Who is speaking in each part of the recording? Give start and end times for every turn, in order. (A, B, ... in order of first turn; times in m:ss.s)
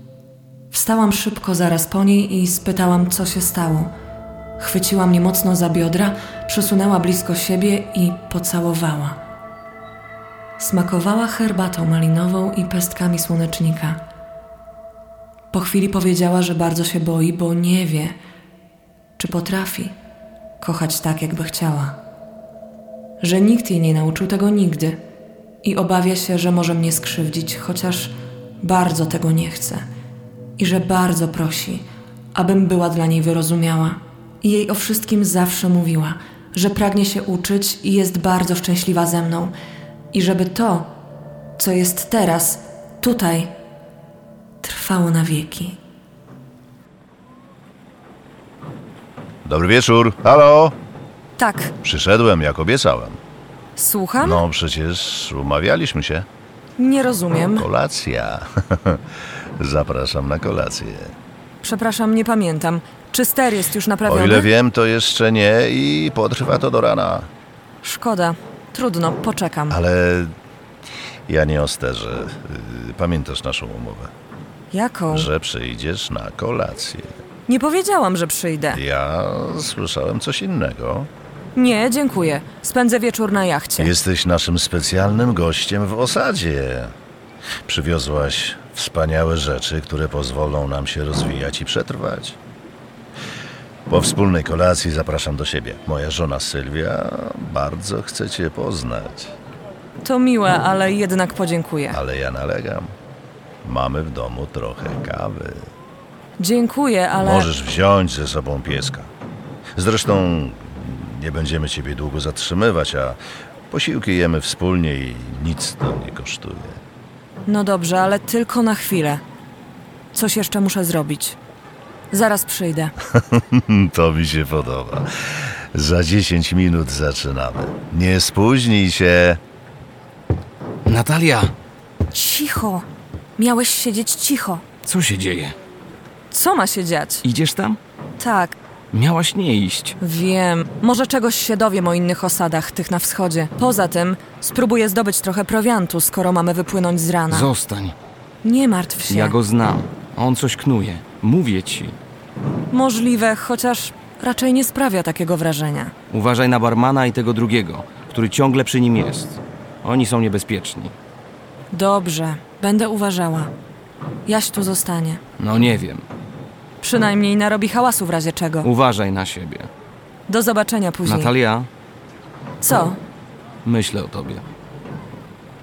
0:00.7-0:03.9 A
0:04.6-0:09.2 A
0:10.6-0:14.0 A
0:15.5-0:18.2 A
0:19.2-0:19.9 A
0:20.6-0:22.0 A
0:23.2-0:25.0 A
0:25.6-0:29.8 A
0:30.6-0:39.5 A
0:40.1-0:40.9 A
0:41.6-0:43.5 A
0:44.6-0:45.8 A
0:49.4-0:50.8 B
0:51.4-0:51.7 A
0:51.8-0:53.2 B
0:53.8-0:54.4 A
0:54.2-0:56.3 B
0:56.8-0:57.7 A
0:57.6-0:59.0 B
0:59.6-1:01.1 B
1:01.6-1:04.5 A
1:04.1-1:07.3 B
1:07.8-1:09.8 A
1:09.7-1:10.3 B
1:11.3-1:14.1 B
1:14.7-1:15.3 A
1:15.1-1:17.2 B
1:17.5-1:18.8 A
1:18.7-1:21.1 B
1:21.6-1:23.9 A
1:23.8-1:26.9 B
1:27.7-1:32.4 B
1:33.9-1:39.4 B
1:40.0-1:42.0 A
1:41.9-1:42.9 B
1:43.6-1:45.7 B
1:46.4-1:47.5 A
1:47.2-1:49.1 B
1:49.8-1:53.2 B
1:53.7-1:56.8 B
1:57.5-1:59.2 A
2:00.1-2:01.4 A
2:02.1-2:02.9 A
2:03.3-2:09.4 B
2:10.9-2:11.5 C
2:12.1-2:12.9 A
2:13.4-2:14.6 A
2:14.8-2:15.6 C
2:16.3-2:17.2 A
2:17.2-2:17.8 C
2:18.2-2:18.6 A
2:18.9-2:20.0 C
2:20.0-2:27.5 A
2:27.3-2:28.0 C
2:28.4-2:29.4 A
2:29.1-2:32.0 C
2:32.7-2:35.9 A
2:36.1-2:40.9 C
2:41.7-2:43.5 A
2:44.3-2:45.2 A
2:45.4-2:46.0 C
2:46.8-2:48.7 A
2:48.6-2:49.7 C
2:50.3-2:51.3 A
2:51.0-2:51.7 C
2:52.6-2:53.0 A
2:53.6-2:54.4 C